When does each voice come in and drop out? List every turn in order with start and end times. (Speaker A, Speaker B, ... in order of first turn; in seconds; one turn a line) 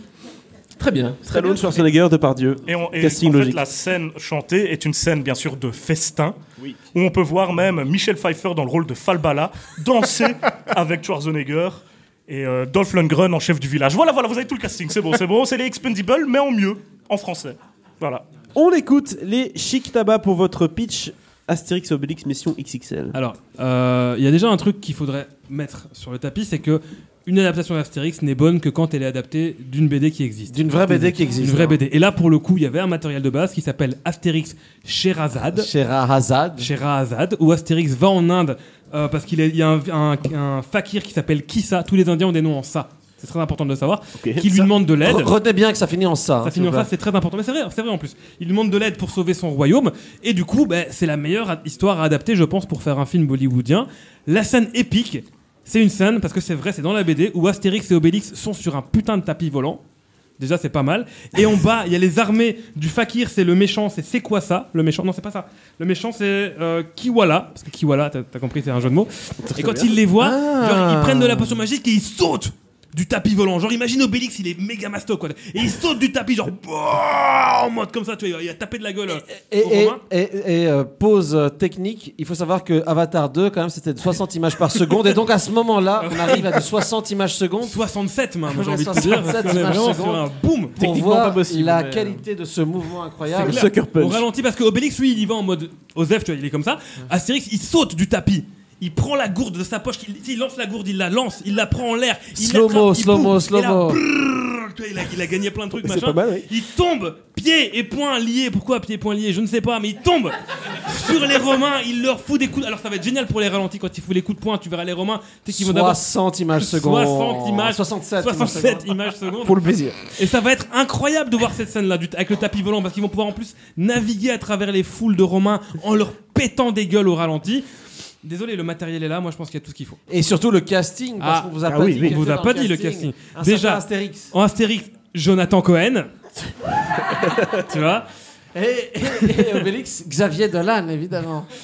Speaker A: 0.8-1.9
Speaker B: 1.3-3.6
Speaker C: 2.7-6.3
Speaker C: 6.9-18.2
Speaker B: 18.5-23.1
Speaker D: 23.1-35.7
Speaker E: 30.5-31.8
Speaker E: 35.5-36.7
Speaker D: 36.6-45.3
Speaker B: 44.1-44.7
Speaker E: 45.0-46.9
Speaker D: 46.4-59.8
Speaker D: 60.4-80.0
Speaker B: 69.4-70.0
Speaker A: 70.1-71.6
Speaker E: 79.2-87.8
Speaker D: 86.0-86.5
Speaker D: 87.6-90.8
Speaker E: 88.5-93.7
Speaker A: 90.8-92.2
Speaker D: 93.3-116.0
Speaker B: 93.3-94.2
Speaker E: 102.3-104.0
Speaker B: 105.8-106.5
Speaker E: 115.5-118.9
Speaker D: 116.5-119.6
Speaker B: 119.4-120.0
Speaker D: 120.2-127.6
Speaker D: 128.2-130.0
Speaker E: 130.1-134.3
Speaker D: 131.2-136.1
Speaker B: 131.7-132.2
Speaker B: 137.1-137.6
Speaker D: 137.6-138.1
Speaker E: 138.5-141.5